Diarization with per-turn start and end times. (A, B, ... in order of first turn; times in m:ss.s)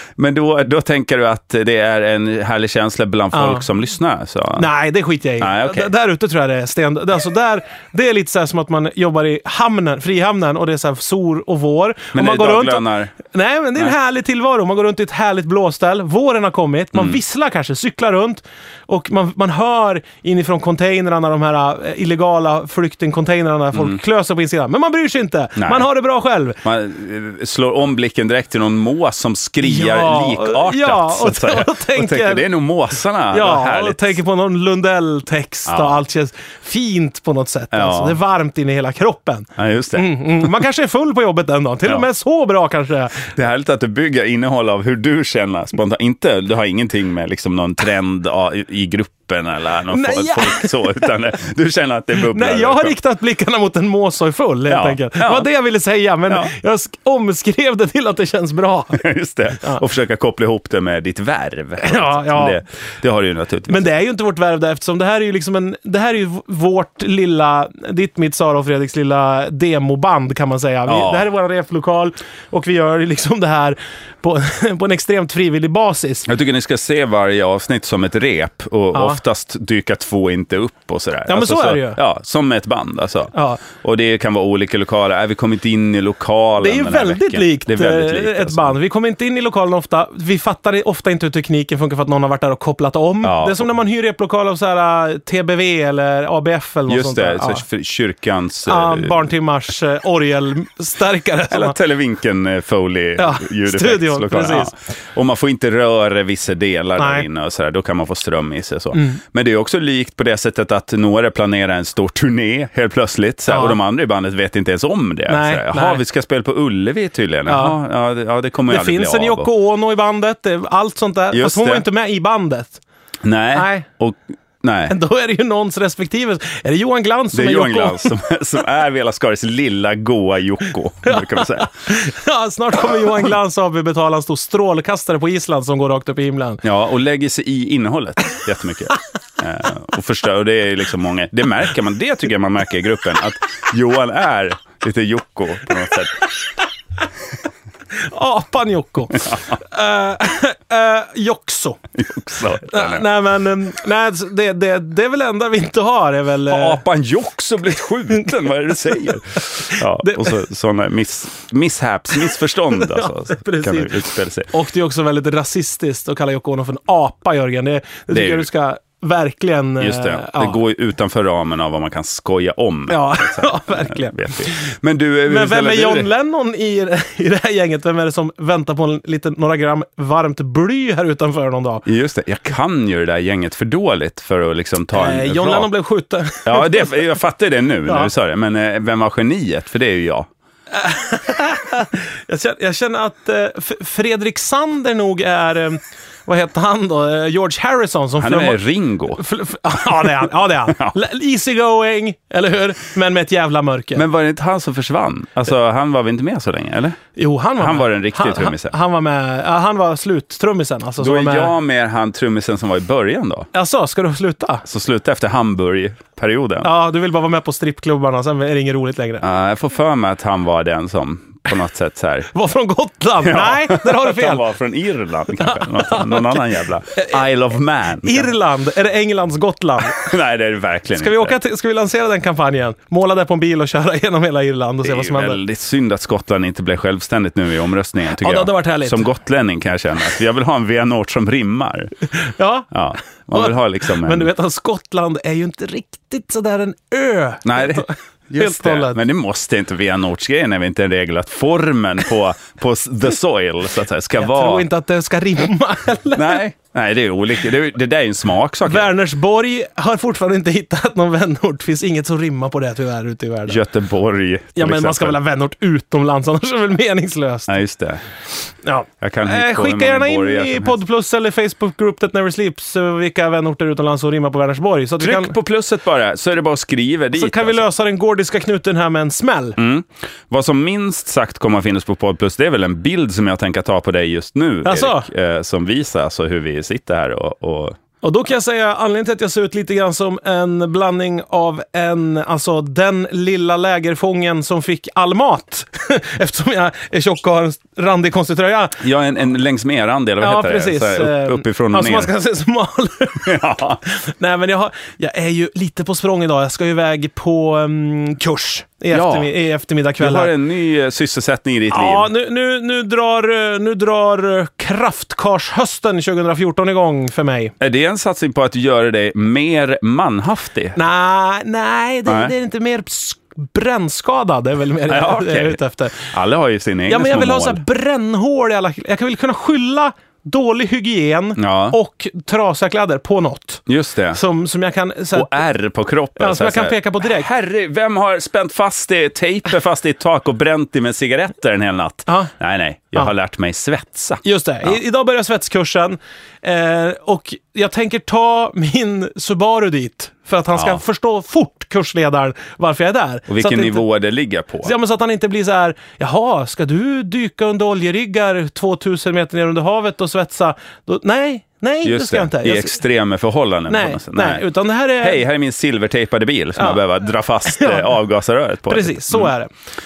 0:00.2-0:04.7 A
0:03.3-0:03.6 B
0:04.6-0:26.6 B
0:05.4-0:05.9 A
0:12.1-0:13.1 A
0:16.9-0:17.2 A
0:23.7-0:24.0 A
0:25.6-0:25.8 A
0:26.6-0:34.2 A
0:29.6-0:32.4 B
0:33.3-0:43.3 B
0:35.7-0:36.0 A
0:37.7-0:38.2 A
0:39.6-0:40.6 A
0:43.2-0:52.9 A
0:49.9-0:51.0 B
0:52.2-0:59.0 B
0:54.7-0:55.5 A
0:56.3-0:56.5 A
0:58.9-1:03.9 A
1:01.8-1:02.6 B
1:03.7-1:16.3 B
1:10.8-1:11.2 A
1:16.2-1:28.8 A
1:18.9-1:19.2 B
1:21.3-1:22.0 B
1:23.3-1:23.6 B
1:26.6-1:37.6 B
1:33.2-1:33.7 A
1:36.9-1:39.2 A
1:38.6-1:41.8 B
1:41.5-1:59.5 A
1:43.2-1:44.7 B
1:47.0-1:47.2 B
1:48.9-1:49.2 B
1:53.5-1:53.8 B
1:55.3-1:56.0 B
1:57.5-1:57.8 B
1:58.7-2:02.8 B
2:01.3-2:01.8 A
2:03.2-2:04.9 A
2:03.5-2:03.8 B
2:04.9-2:08.1 B
2:07.3-2:11.7 A
2:11.0-2:16.6 B
2:16.6-2:26.2 A
2:28.0-2:31.8 B
2:29.1-2:29.5 A
2:31.9-2:33.1 A
2:32.6-2:36.8 B
2:36.5-2:44.5 A
2:39.5-2:40.4 B
2:42.7-2:50.6 B
2:48.1-2:48.4 A
2:49.8-2:56.1 A
2:52.9-2:54.6 B
2:55.2-3:01.8 B
3:01.8-3:05.7 A
3:04.9-3:07.0 B
3:06.4-3:10.3 A
3:10.7-3:18.6 B
3:18.2-3:19.2 A
3:19.1-3:24.0 B
3:20.7-3:20.9 A
3:23.9-3:27.0 A
3:27.2-3:31.5 B
3:27.6-3:28.7 A
3:31.0-3:33.5 A
3:33.5-3:34.6 B
3:34.6-3:36.7 A
3:36.6-3:39.2 B
3:39.2-3:42.3 A
3:42.3-3:44.4 B
3:43.2-3:48.3 A
3:45.4-3:47.2 B
3:48.0-3:50.1 B
3:49.8-3:51.3 A
3:50.9-3:55.4 B
3:54.8-4:01.9 A
3:58.2-3:59.1 B
4:02.2-4:02.7 B
4:02.7-4:04.3 A
4:03.3-4:09.0 B
4:07.4-4:14.6 A
4:14.2-4:16.4 B
4:16.1-4:18.9 A
4:18.6-4:23.6 B
4:23.5-4:25.2 A
4:24.6-4:27.6 B
4:27.5-4:28.0 A
4:28.6-4:35.4 B
4:29.0-4:30.8 A
4:35.0-4:37.6 A
4:37.1-4:39.6 B
4:39.6-4:47.8 A
4:44.6-4:45.1 B
4:48.0-4:58.8 B
4:58.8-5:02.1 A
5:00.2-5:10.3 B
5:03.2-5:03.8 A
5:08.9-5:09.3 A
5:10.0-5:12.1 A
5:11.7-5:17.5 B
5:17.6-5:20.8 A
5:20.7-5:26.1 B
5:22.1-5:22.3 A
5:24.9-5:27.6 A
5:26.9-5:35.3 B
5:31.4-5:31.8 A
5:33.7-5:34.2 A
5:35.1-5:44.8 A
5:36.2-5:37.3 B
5:42.1-5:42.3 B
5:44.2-5:53.8 B
5:50.5-5:50.8 A
5:53.3-5:54.7 A
5:54.6-6:02.8 B
6:01.8-6:04.5 A
6:03.7-6:05.2 B
6:05.0-6:09.3 A
6:07.4-6:07.9 B
6:08.7-6:09.5 B